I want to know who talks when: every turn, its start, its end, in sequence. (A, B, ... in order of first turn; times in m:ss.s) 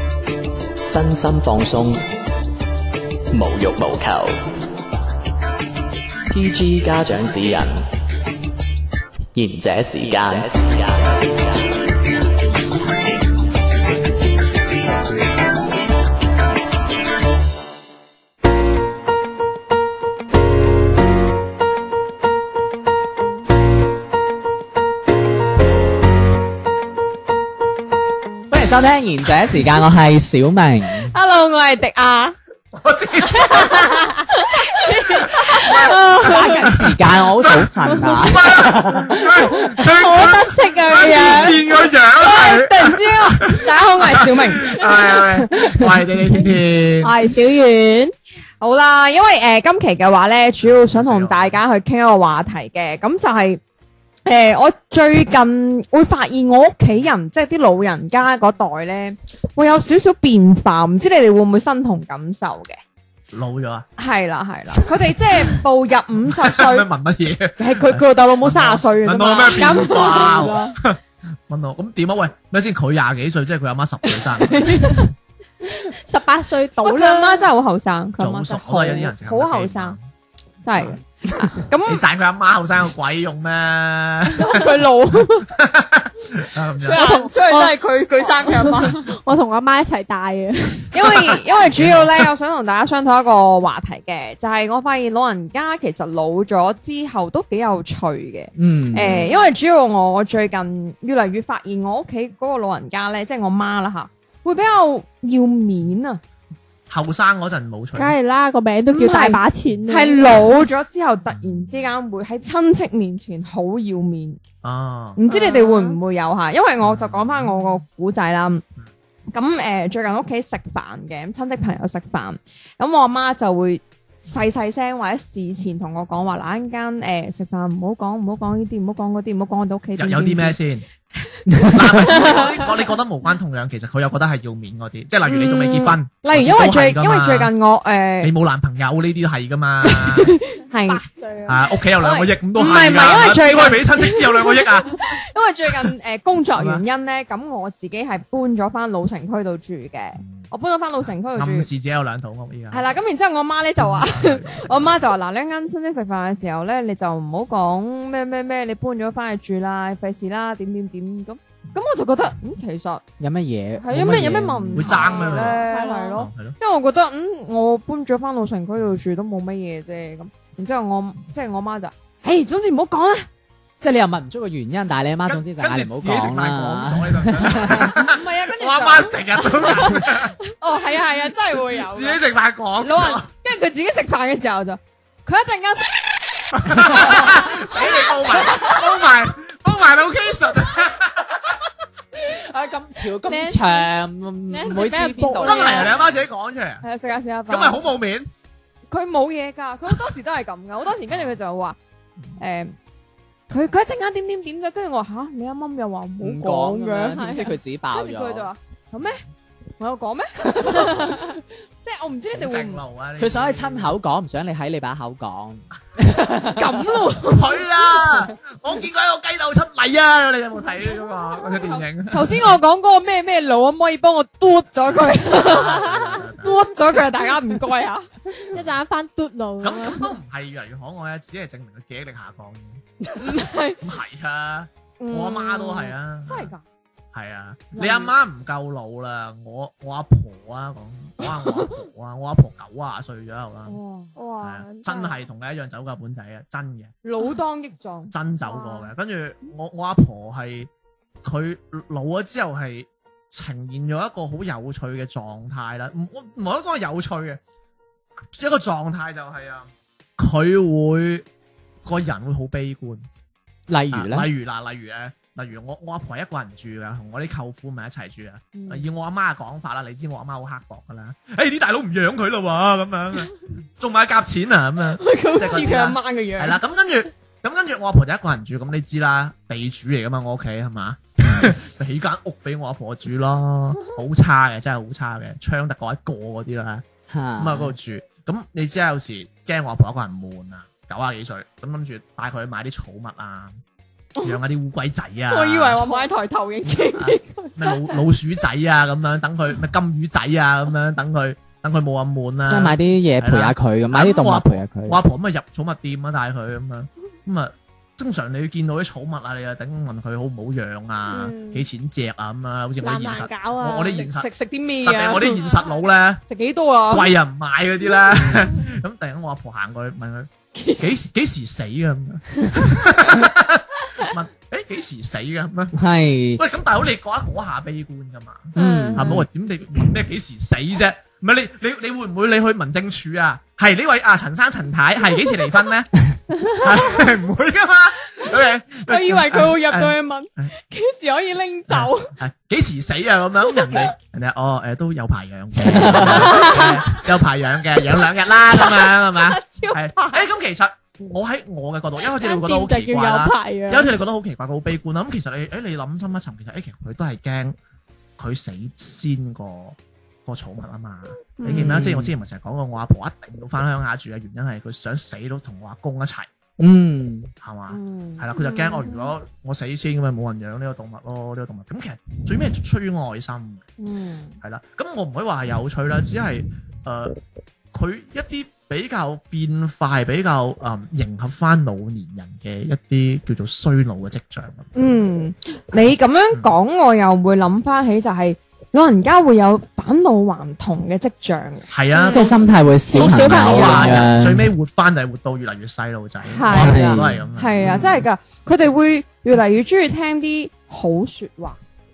0:00.8-0:02.0 A
0:03.3-0:04.4 A
0:06.3-0:07.8 A
0:09.4-0:11.5 A
0:28.5-0:31.1 B
0:31.1-0:32.4 C
0:32.7-0:33.9 D
0:34.8-0:35.7 C
0:34.9-0:36.5 E
0:35.2-0:47.1 D
0:36.2-0:39.2 B
0:39.6-0:41.6 E
0:40.9-0:45.2 C
0:47.0-0:48.1 E
0:48.6-0:53.6 C
0:50.6-0:51.6 D
0:54.3-1:02.8 C
1:03.3-1:03.9 D
1:04.0-1:06.9 C
1:06.3-1:14.9 D
1:07.6-1:10.6 C
1:09.6-1:10.7 E
1:14.4-1:15.0 C
1:14.8-1:15.0 E
1:15.7-1:17.5 E
1:16.8-1:20.0 C
1:18.2-1:20.0 D
1:20.6-1:22.0 C
1:21.8-1:24.7 D
1:24.4-1:25.5 C
1:25.5-1:27.1 D
1:26.8-1:29.1 C
1:26.9-1:30.9 E
1:30.9-1:46.2 C
1:31.2-1:32.2 D
1:38.6-1:39.2 B
1:39.0-1:39.3 D
1:46.9-1:48.2 D
1:48.0-1:50.2 E
1:48.9-1:54.4 C
1:51.3-1:51.9 D
1:54.6-1:55.2 D
1:55.2-1:58.6 C
1:55.3-1:56.0 E
1:56.8-1:57.8 D
1:59.3-2:10.6 C
2:10.0-2:10.8 D
2:11.7-2:17.5 D
2:12.2-2:12.5 E
2:15.3-2:18.3 C
2:18.2-2:20.3 D
2:19.8-2:21.0 C
2:20.9-2:21.7 E
2:21.5-2:25.0 D
2:22.0-2:31.7 C
2:26.6-2:26.8 D
2:30.2-2:30.5 D
2:31.3-2:33.0 D
2:32.7-2:43.0 C
2:33.8-2:35.1 D
2:43.2-2:45.0 B
2:43.8-2:53.3 C
2:44.7-2:46.6 D
2:45.0-2:46.2 E
2:53.8-2:58.0 B
2:55.2-3:00.4 D
2:57.6-3:02.2 C
3:01.9-3:03.3 D
3:02.8-3:06.0 C
3:06.5-3:11.5 D
3:06.7-3:08.8 C
3:12.2-3:15.8 B
3:13.2-3:13.9 E
3:14.5-3:16.0 E
3:15.4-3:16.8 D
3:16.8-3:17.9 C
3:17.5-3:18.3 D
3:18.9-3:21.8 C
3:21.1-3:21.4 D
3:22.4-3:22.7 C
3:23.5-3:29.2 C
3:26.2-3:28.5 B
3:27.1-3:27.6 E
3:29.8-3:32.8 C
3:32.3-3:34.0 D
3:33.2-3:36.6 B
3:36.5-3:37.7 C
3:37.2-3:42.6 D
3:41.6-3:48.1 C
3:45.0-3:46.6 D
3:45.6-3:46.2 E
3:48.3-3:50.1 E
3:48.5-3:48.8 D
3:49.6-3:52.8 D
3:53.2-3:53.8 C
3:53.8-3:56.5 D
3:55.0-3:56.6 C
3:57.1-4:03.8 D
3:57.8-3:58.1 C
4:03.7-4:04.1 C
4:04.2-4:05.2 E
4:04.4-4:06.9 D
4:07.0-4:08.1 C
4:08.1-4:10.7 D
4:08.5-4:08.9 E
4:11.2-4:17.4 D
4:18.3-4:21.3 D
4:21.8-4:23.1 D
4:23.7-4:24.3 B
4:23.9-4:46.8 D
4:28.5-4:28.9 C
4:35.0-4:36.6 C
4:47.1-4:47.8 B
4:47.4-4:53.6 D
4:54.2-4:55.8 D
4:55.3-4:57.5 C
4:57.0-5:14.3 D
5:02.5-5:05.0 B
5:11.1-5:11.6 E
5:12.8-5:14.0 E
5:13.9-5:15.4 C
5:14.8-5:16.2 D
5:15.3-5:15.7 E
5:16.3-5:17.2 C
5:16.9-5:25.8 D
5:20.6-5:21.0 C
5:25.8-5:26.4 B
5:26.4-5:35.9 D
5:28.6-5:29.1 E
5:28.6-5:29.3 B
5:36.5-5:40.5 D
5:38.8-5:42.1 C
5:41.7-5:57.6 D
5:45.8-5:46.0 B
5:46.3-5:46.8 E
5:46.4-5:47.0 C
5:48.5-5:50.2 C
5:52.0-5:53.9 E
5:58.2-6:06.3 D
6:01.4-6:01.8 E
6:01.5-6:02.1 B
6:06.6-6:07.3 B
6:07.4-6:13.6 D
6:07.7-6:09.0 C
6:13.8-6:14.4 C
6:14.4-6:17.2 D
6:17.7-6:24.7 D
6:24.8-6:32.2 C
6:31.7-6:32.3 D
6:32.0-6:32.4 E
6:32.1-6:34.5 B
6:32.9-6:38.1 D
6:33.0-6:33.5 E
6:33.0-6:34.0 C
6:36.3-6:41.6 C
6:36.5-6:37.1 B